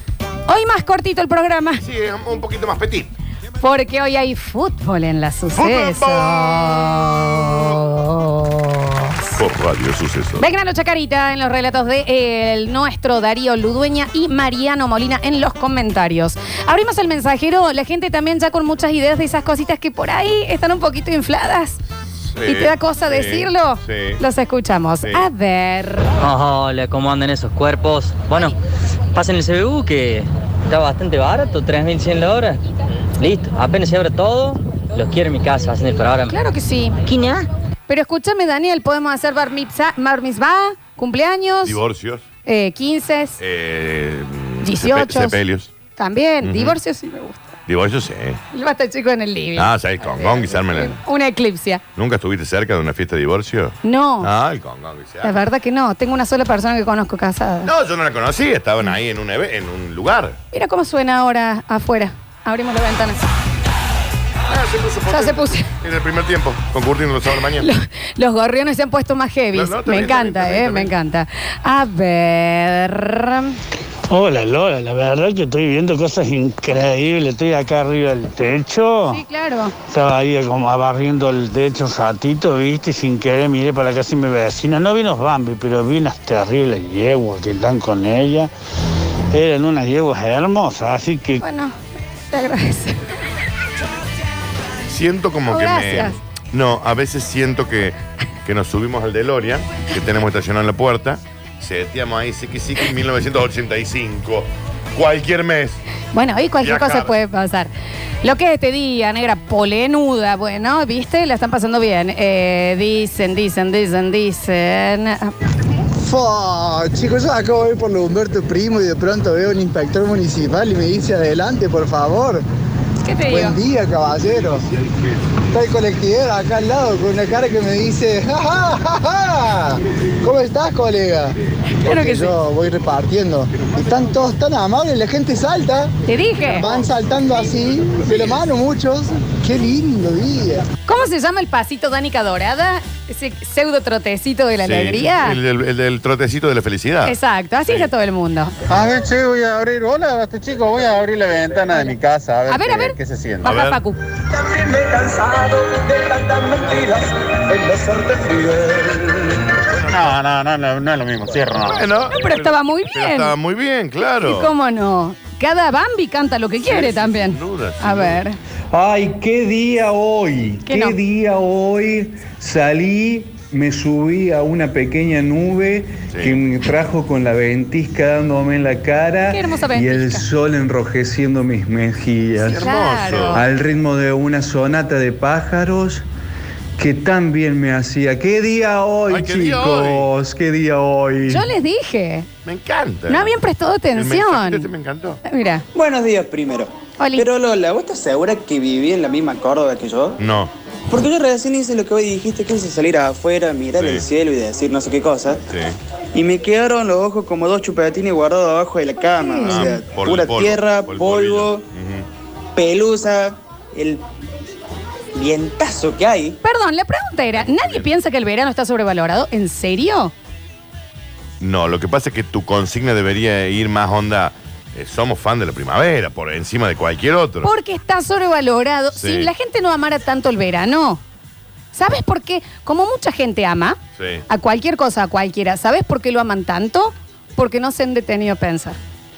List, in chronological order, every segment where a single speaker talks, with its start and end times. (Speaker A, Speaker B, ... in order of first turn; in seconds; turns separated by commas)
Speaker A: 0.5-1.8, Speaker B: 1.8-3.1, Speaker A: 3.6-9.4, Speaker B: 5.6-7.8, Speaker B: 9.4-10.4, Speaker A: 10.4-21.8, Speaker B: 22.3-24.2, Speaker A: 22.4-26.1, Speaker B: 25.0-25.3, Speaker C: 26.2-28.6, Speaker C: 29.1-32.6, Speaker C: 33.2-36.4, Speaker A: 36.3-37.0, Speaker C: 37.1-37.4, Speaker A: 37.9-41.8, Speaker B: 41.6-42.2, Speaker A: 42.5-43.4, Speaker B: 43.4-45.7, Speaker A: 44.6-45.4, Speaker A: 46.0-47.5, Speaker B: 46.4-46.8, Speaker B: 47.7-48.4, Speaker A: 48.5-51.8, Speaker B: 49.6-51.0, Speaker B: 52.0-55.4, Speaker A: 53.8-54.3, Speaker A: 55.2-57.7, Speaker B: 57.6-60.4, Speaker A: 60.5-63.2, Speaker B: 64.5-67.7, Speaker A: 65.1-65.7, Speaker A: 67.6-73.6, Speaker B: 69.5-70.9, Speaker D: 74.1-79.2, Speaker A: 79.1-79.7, Speaker D: 79.9-88.5, Speaker D: 89.3-91.4, Speaker A: 91.4-91.8, Speaker A: 92.3-93.0, Speaker B: 94.9-105.8, Speaker A: 95.5-96.2, Speaker A: 106.1-107.7, Speaker B: 106.6-107.1, Speaker A: 108.2-115.3, Speaker E: 116.0-122.4, Speaker A: 123.0-123.6, Speaker E: 123.3-124.6, Speaker E: 125.5-135.9, Speaker A: 131.8-132.4, Speaker A: 136.1-136.6, Speaker E: 136.5-140.6, Speaker A: 140.9-145.4, Speaker B: 144.6-147.9, Speaker A: 147.1-148.6, Speaker F: 148.7-153.5, Speaker A: 151.7-151.9, Speaker A: 152.5-154.0, Speaker B: 153.4-153.8, Speaker B: 156.4-156.9, Speaker B: 159.7-160.2, Speaker F: 159.9-161.8, Speaker B: 161.6-164.5, Speaker A: 162.1-163.3, Speaker A: 164.2-168.4, Speaker B: 166.7-168.2, Speaker G: 168.7-182.7, Speaker A: 170.7-170.9, Speaker B: 176.1-176.4, Speaker A: 179.3-180.2, Speaker B: 182.4-183.4, Speaker A: 182.5-183.4, Speaker G: 183.3-186.0, Speaker G: 186.8-191.5, Speaker B: 189.1-190.1, Speaker A: 191.3-192.3, Speaker B: 192.4-193.3, Speaker A: 193.1-194.7, Speaker B: 193.9-195.2, Speaker A: 195.2-195.6, Speaker H: 195.7-200.2, Speaker A: 197.0-197.3, Speaker B: 200.2-200.5, Speaker H: 200.9-205.4, Speaker B: 203.8-204.1, Speaker B: 205.5-205.8, Speaker H: 206.1-211.7, Speaker A: 209.2-209.7, Speaker B: 209.4-212.1, Speaker H: 212.6-214.0, Speaker H: 215.1-216.4, Speaker A: 216.4-220.1, Speaker B: 217.4-217.9, Speaker B: 221.4-227.5, Speaker A: 227.4-231.0, Speaker B: 228.9-229.3, Speaker A: 231.7-238.8, Speaker B: 234.0-234.2